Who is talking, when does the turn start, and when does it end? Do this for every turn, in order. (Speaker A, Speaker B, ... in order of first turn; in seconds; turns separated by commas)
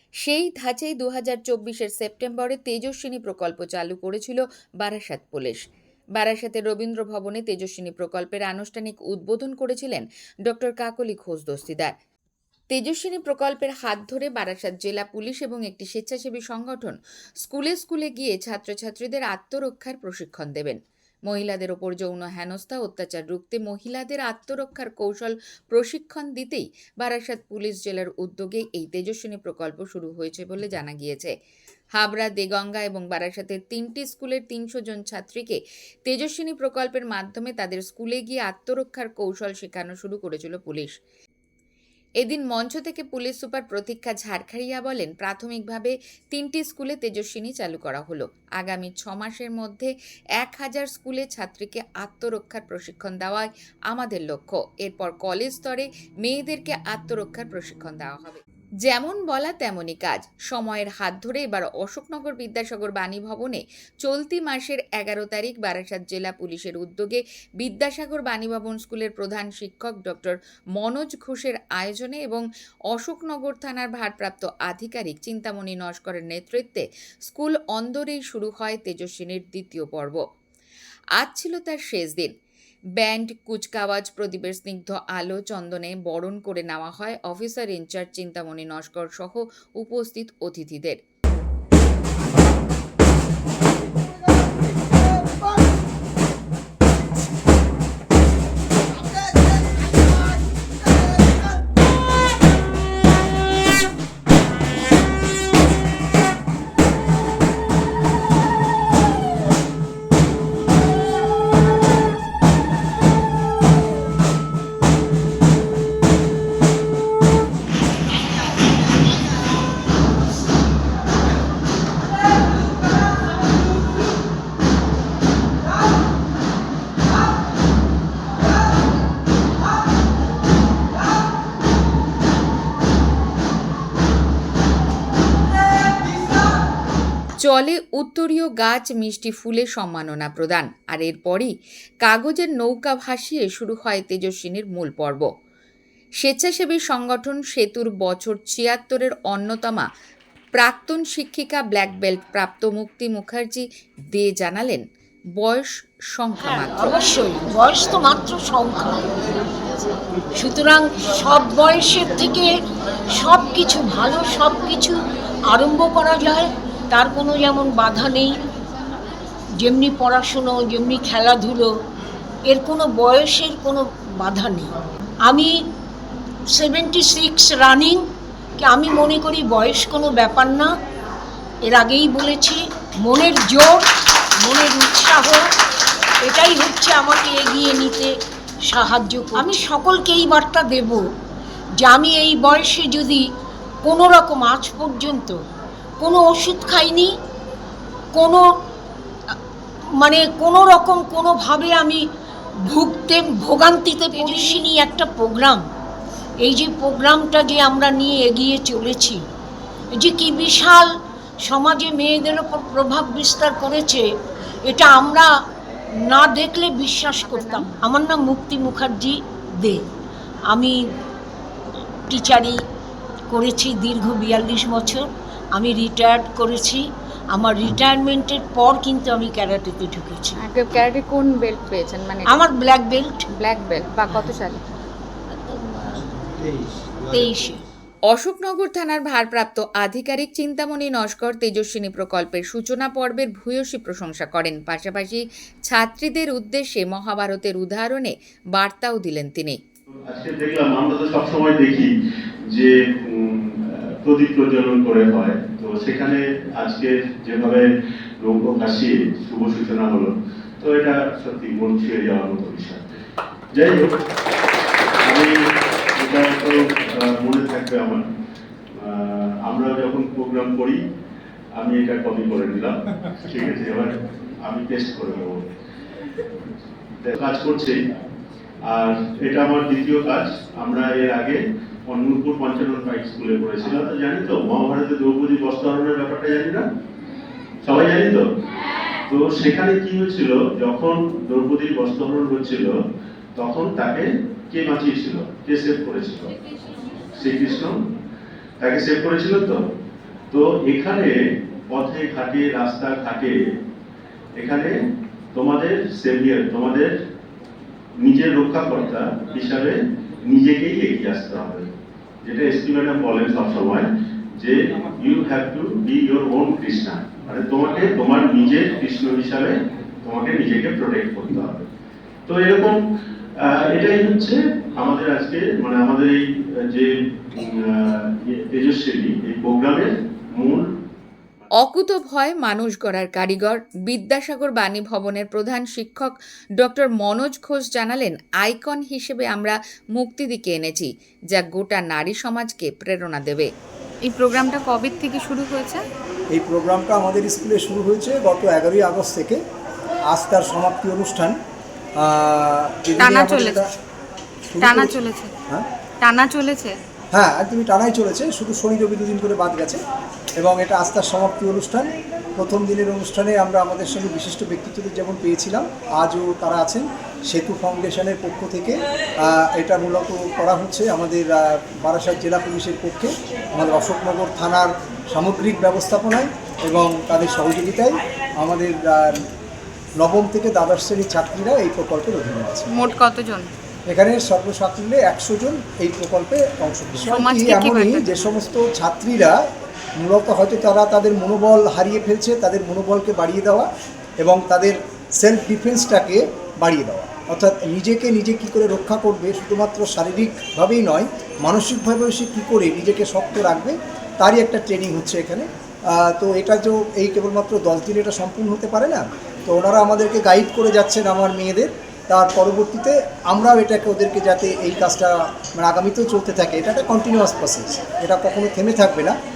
Speaker A: 0.2-5.6, Speaker A: 6.2-11.9, Speaker A: 12.7-31.3, Speaker A: 31.9-40.9, Speaker A: 42.2-80.2, Speaker A: 81.2-82.3, Speaker A: 83.0-91.0, Speaker A: 137.4-141.5, Speaker A: 142.0-145.2, Speaker A: 146.2-149.9, Speaker A: 150.5-154.8, Speaker A: 155.4-157.0, Speaker B: 156.4-159.2, Speaker B: 160.3-162.5, Speaker B: 163.1-165.0, Speaker B: 165.5-168.3, Speaker B: 169.6-171.7, Speaker B: 172.4-174.7, Speaker B: 175.2-175.6, Speaker B: 176.5-178.0, Speaker B: 178.6-180.7, Speaker B: 181.7-183.9, Speaker B: 184.4-185.4, Speaker B: 186.2-188.1, Speaker B: 188.7-191.0, Speaker B: 191.8-193.2, Speaker B: 193.8-195.4, Speaker B: 196.0-197.1, Speaker B: 198.1-198.4, Speaker B: 200.0-202.0, Speaker B: 202.7-205.6, Speaker C: 204.1-204.6, Speaker B: 206.4-209.2, Speaker B: 209.9-210.9, Speaker B: 211.4-214.1, Speaker B: 214.7-215.3, Speaker B: 216.1-219.8, Speaker C: 217.2-217.7, Speaker B: 220.5-220.7, Speaker B: 222.1-222.6, Speaker B: 223.3-230.4, Speaker C: 230.4-232.4, Speaker B: 232.2-233.2, Speaker C: 233.3-234.6, Speaker B: 237.1-237.6, Speaker A: 238.1-249.6, Speaker D: 250.1-251.9, Speaker D: 252.5-257.7, Speaker D: 258.2-262.8, Speaker D: 263.5-263.9, Speaker D: 265.0-265.4, Speaker D: 266.0-268.0, Speaker D: 268.7-270.8, Speaker D: 271.5-275.5, Speaker D: 277.0-277.8, Speaker D: 278.7-286.6, Speaker D: 287.6-288.2, Speaker D: 289.1-292.7, Speaker D: 293.3-296.3, Speaker D: 297.1-297.7, Speaker D: 298.6-299.6, Speaker D: 300.3-301.2, Speaker D: 301.7-303.4, Speaker D: 304.4-304.7, Speaker D: 305.3-306.9, Speaker D: 308.0-311.7, Speaker D: 312.2-321.6, Speaker D: 322.3-322.8, Speaker D: 323.4-330.6, Speaker A: 331.5-343.5, Speaker C: 344.1-345.8, Speaker E: 346.3-349.4, Speaker E: 350.1-351.4, Speaker E: 352.0-353.7, Speaker C: 353.0-353.6, Speaker E: 354.5-355.0, Speaker C: 354.6-355.3, Speaker C: 356.0-356.8, Speaker E: 357.1-359.8, Speaker E: 360.4-379.2, Speaker E: 380.0-382.8, Speaker C: 382.7-383.5, Speaker E: 383.9-389.4, Speaker C: 387.0-388.2, Speaker E: 390.0-393.7, Speaker E: 394.2-419.1